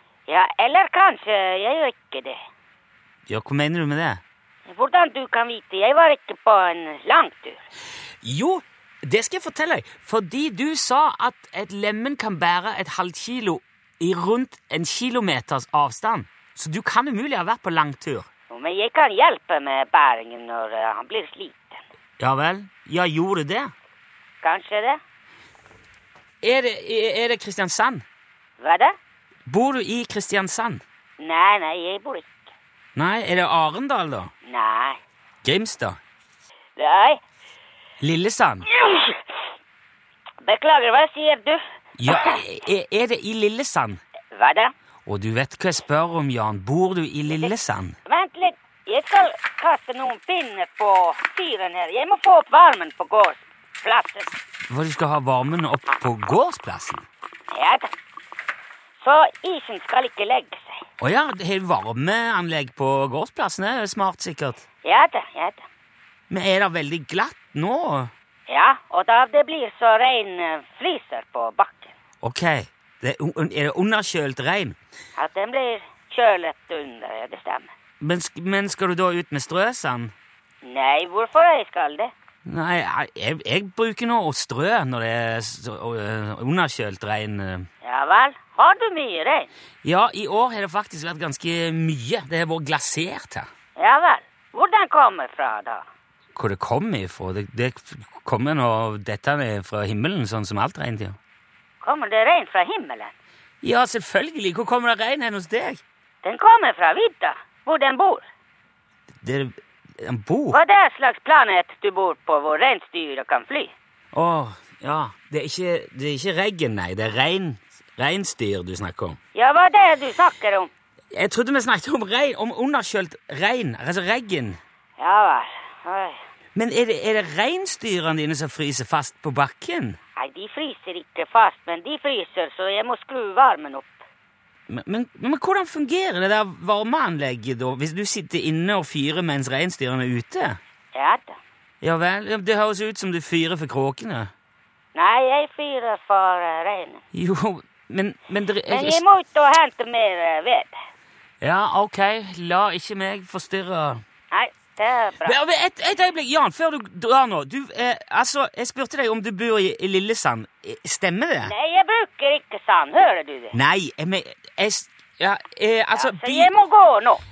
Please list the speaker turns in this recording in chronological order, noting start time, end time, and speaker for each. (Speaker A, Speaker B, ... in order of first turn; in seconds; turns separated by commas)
Speaker A: 0.3-2.4, Speaker B: 3.3-4.2, Speaker A: 4.7-7.6, Speaker B: 8.2-18.2, Speaker A: 18.5-21.8, Speaker B: 22.2-23.7, Speaker A: 24.4-25.0, Speaker B: 26.4-28.0, Speaker A: 28.6-28.9, Speaker B: 29.5-30.8, Speaker A: 31.2-32.4, Speaker B: 33.0-34.3, Speaker A: 34.4-35.0, Speaker B: 35.4-36.0, Speaker A: 36.8-37.2, Speaker B: 38.0-38.7, Speaker A: 38.7-39.2, Speaker A: 40.4-42.4, Speaker B: 42.0-44.0, Speaker A: 44.3-44.7, Speaker B: 45.0-48.0, Speaker A: 47.3-47.5, Speaker A: 48.0-54.3, Speaker B: 54.7-57.0, Speaker A: 57.5-57.9, Speaker A: 59.0-60.8, Speaker B: 61.0-64.6, Speaker A: 64.8-65.6, Speaker B: 66.3-68.1, Speaker A: 68.5-71.9, Speaker B: 72.2-74.8, Speaker A: 75.2-77.7, Speaker B: 78.0-80.1, Speaker A: 80.6-82.1, Speaker B: 82.4-87.7, Speaker A: 87.8-89.5, Speaker B: 89.8-93.5, Speaker A: 93.8-95.8, Speaker B: 96.3-101.2, Speaker A: 101.8-103.1, Speaker B: 103.6-105.8, Speaker A: 106.2-108.2, Speaker B: 109.2-110.6, Speaker A: 110.5-113.7, Speaker B: 114.1-119.2, Speaker A: 119.3-120.7, Speaker B: 121.1-124.6, Speaker A: 125.0-126.2, Speaker B: 126.5-130.0, Speaker A: 130.2-134.0, Speaker B: 134.7-140.6, Speaker A: 140.9-141.4, Speaker B: 141.8-144.3, Speaker A: 144.9-147.0, Speaker B: 147.1-149.0, Speaker A: 148.7-150.8, Speaker B: 151.4-154.0, Speaker A: 154.3-155.4, Speaker B: 155.2-161.5, Speaker A: 161.4-163.6, Speaker B: 163.5-166.5, Speaker A: 165.9-167.2